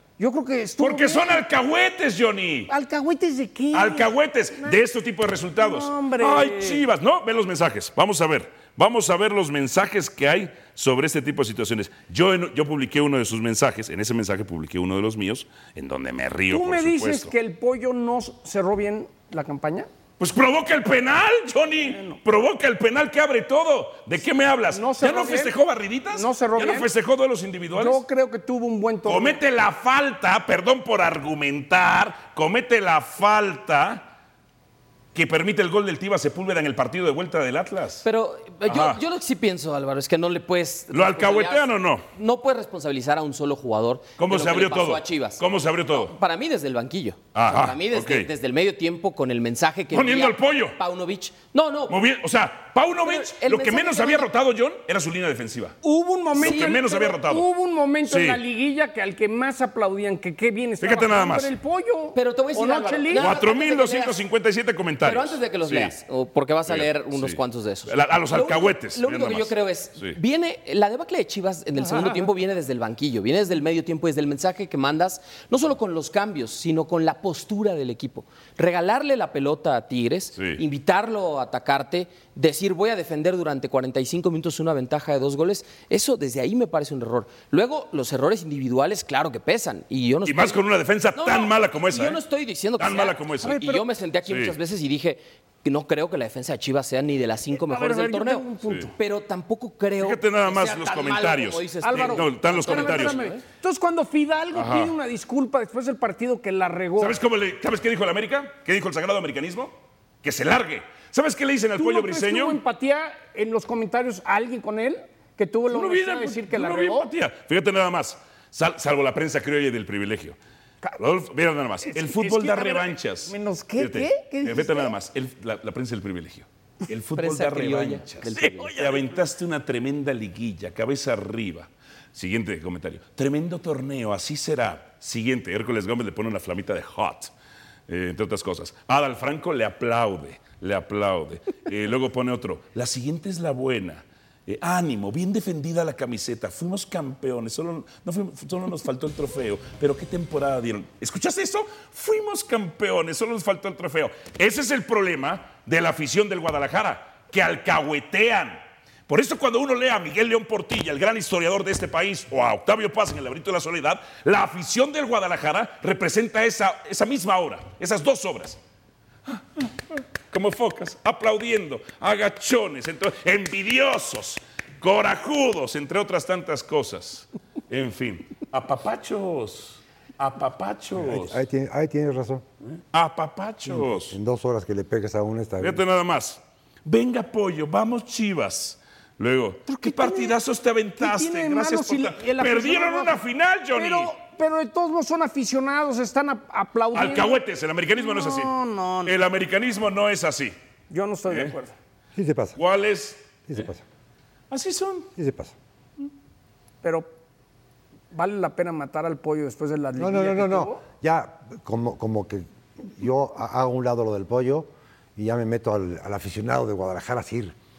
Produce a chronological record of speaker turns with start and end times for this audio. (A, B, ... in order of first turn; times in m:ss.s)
0:00.2-0:01.4 A
0:00.8-0:02.7 B
0:02.7-0:04.8 A
0:03.7-0:17.3 B
0:05.6-0:06.8 A
0:16.5-0:19.9 A
0:20.2-0:28.0 B
0:21.9-0:22.2 A
0:24.7-0:25.5 A
0:26.1-0:26.9 A
0:27.7-0:29.4 A
0:29.0-0:34.1 B
0:35.1-0:38.0 B
0:38.0-0:52.0 C
0:38.6-0:39.0 B
0:40.9-0:42.0 B
0:44.2-0:46.1 B
0:47.3-0:48.3 B
0:49.9-0:50.8 B
0:51.9-0:55.8 B
0:53.0-0:54.3 C
0:55.8-1:03.4 A
0:56.3-0:57.5 B
0:56.4-0:56.8 C
0:58.0-0:58.4 B
1:00.8-1:01.5 B
1:02.1-1:04.1 C
1:03.1-1:06.0 B
1:05.0-1:30.6 C
1:06.7-1:10.2 B
1:11.8-1:12.3 A
1:20.4-1:20.6 B
1:30.2-1:32.2 B
1:31.1-1:38.5 C
1:32.8-1:33.6 B
1:33.4-1:33.8 A
1:34.2-1:34.6 B
1:37.5-1:38.9 A
1:39.0-1:43.4 C
1:40.0-1:43.2 B
1:41.8-1:47.2 A
1:44.5-1:44.9 B
1:47.0-1:52.6 B
1:51.8-1:57.1 A
1:55.7-2:00.4 B
2:01.0-2:17.3 B
2:01.8-2:04.9 A
2:07.1-2:09.1 C
2:17.9-2:48.6 B
2:49.2-3:01.4 B
3:01.0-3:02.4 D
3:02.9-3:04.2 B
3:03.7-3:05.8 D
3:05.6-3:14.1 B
3:09.7-3:10.3 A
3:11.0-3:13.2 A
3:13.8-3:17.4 A
3:16.9-3:20.6 B
3:18.0-3:19.1 A
3:20.9-3:21.7 A
3:21.3-3:21.5 B
3:22.2-3:22.6 D
3:22.6-3:23.7 B
3:23.5-3:23.8 D
3:24.5-3:25.1 B
3:25.2-3:25.6 D
3:26.8-3:27.1 A
3:28.1-3:30.8 A
3:30.0-3:37.6 D